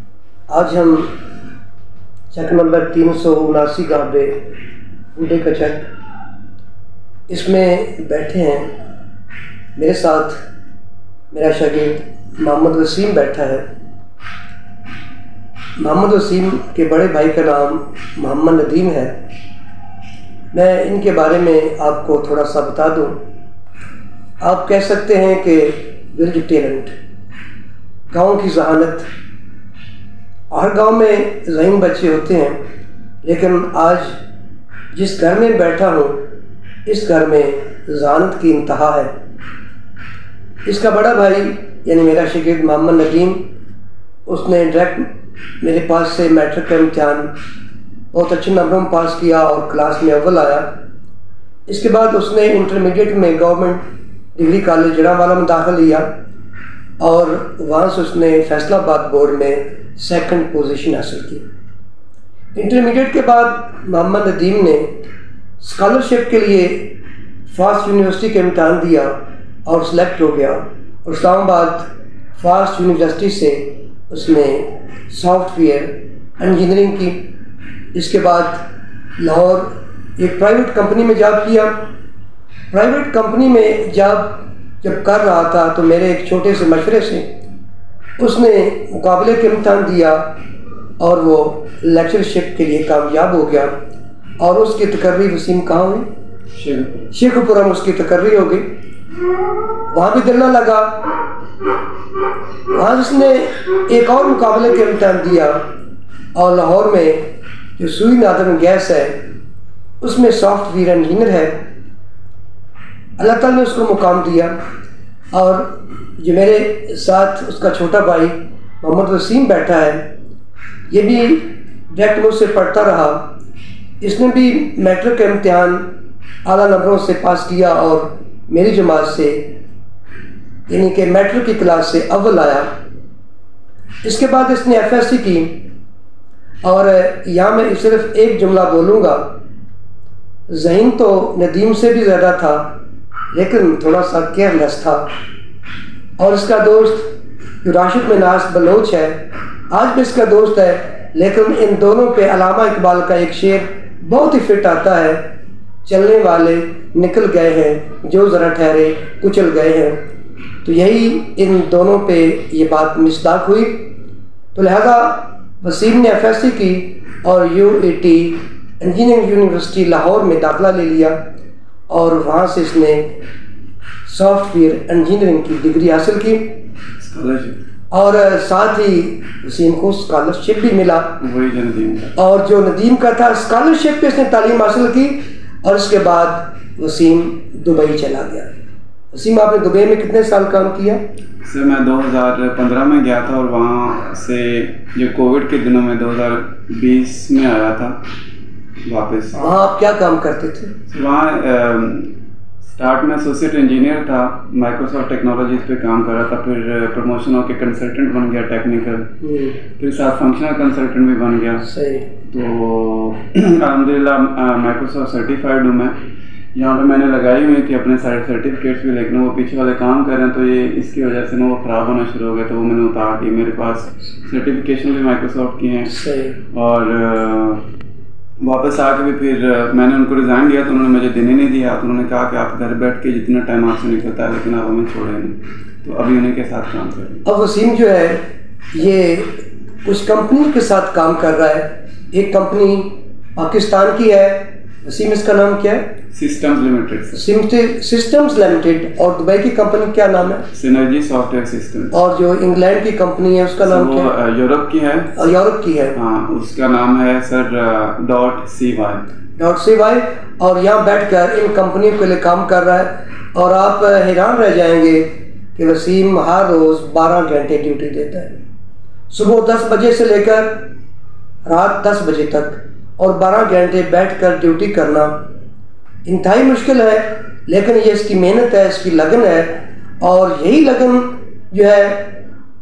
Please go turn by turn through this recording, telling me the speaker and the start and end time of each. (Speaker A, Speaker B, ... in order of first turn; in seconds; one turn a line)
Speaker A: 0.5-1.1
Speaker A: 2.3-4.5
Speaker A: 5.2-5.9
Speaker A: 7.3-8.7
Speaker A: 9.8-10.4
Speaker A: 11.3-13.7
Speaker A: 15.8-19.2
Speaker A: 20.5-23.2
Speaker A: 24.4-26.9
Speaker A: 28.1-29.1
Speaker A: 30.5-32.6
Speaker A: 33.2-34.2
Speaker A: 34.9-36.2
Speaker A: 36.9-39.1
Speaker A: 40.6-43.5
Speaker A: 44.3-45.1
Speaker A: 45.6-47.3
Speaker A: 48.1-50.7
Speaker A: 51.7-53.8
Speaker A: 54.4-56.1
Speaker A: 57.0-61.5
Speaker A: 62.5-65.0
Speaker A: 65.6-67.0
Speaker A: 67.5-77.3
Speaker A: 77.9-78.6
Speaker A: 79.2-81.8
Speaker A: 82.7-87.3
Speaker A: 88.2-90.3
Speaker A: 91.0-93.8
Speaker A: 94.4-96.1
Speaker B: 96.5-97.1
Speaker A: 97.1-98.7
Speaker A: 99.9-101.2
Speaker A: 102.7-105.7
Speaker A: 106.3-109.2
Speaker A: 110.0-111.7
Speaker A: 113.2-114.6
Speaker A: 115.3-120.1
Speaker A: 120.9-123.3
Speaker A: 124.0-125.9
Speaker A: 126.5-129.5
Speaker A: 130.7-132.7
Speaker A: 134.0-135.6
Speaker A: 136.6-139.3
Speaker A: 140.5-142.7
Speaker A: 143.3-145.1
Speaker A: 146.2-147.1
Speaker A: 147.6-155.2
Speaker A: 155.8-160.0
Speaker A: 160.6-163.9
Speaker A: 164.6-171.2
Speaker A: 171.9-173.2
Speaker A: 174.1-176.5
Speaker B: 177.0-177.6
Speaker A: 177.9-181.2
Speaker B: 181.2-182.1
Speaker A: 182.2-188.5
Speaker A: 189.1-191.0
Speaker B: 191.4-198.0
Speaker B: 198.8-199.6
Speaker A: 199.3-200.8
Speaker B: 200.9-202.1
Speaker B: 202.7-209.1
Speaker A: 209.2-209.6
Speaker B: 209.7-211.7
Speaker A: 211.6-212.1
Speaker B: 212.3-216.0
Speaker B: 216.5-225.9
Speaker A: 225.9-226.4
Speaker B: 226.5-227.7
Speaker B: 228.4-237.2
Speaker A: 237.2-245.9
Speaker B: 246.1-247.2
Speaker A: 247.1-250.4
Speaker B: 250.5-251.9
Speaker A: 251.9-254.1
Speaker B: 253.6-255.1
Speaker A: 255.2-256.0
Speaker B: 255.9-259.1
Speaker A: 259.4-268.4
Speaker A: 269.1-270.7
Speaker A: 271.5-275.2
Speaker A: 276.1-282.2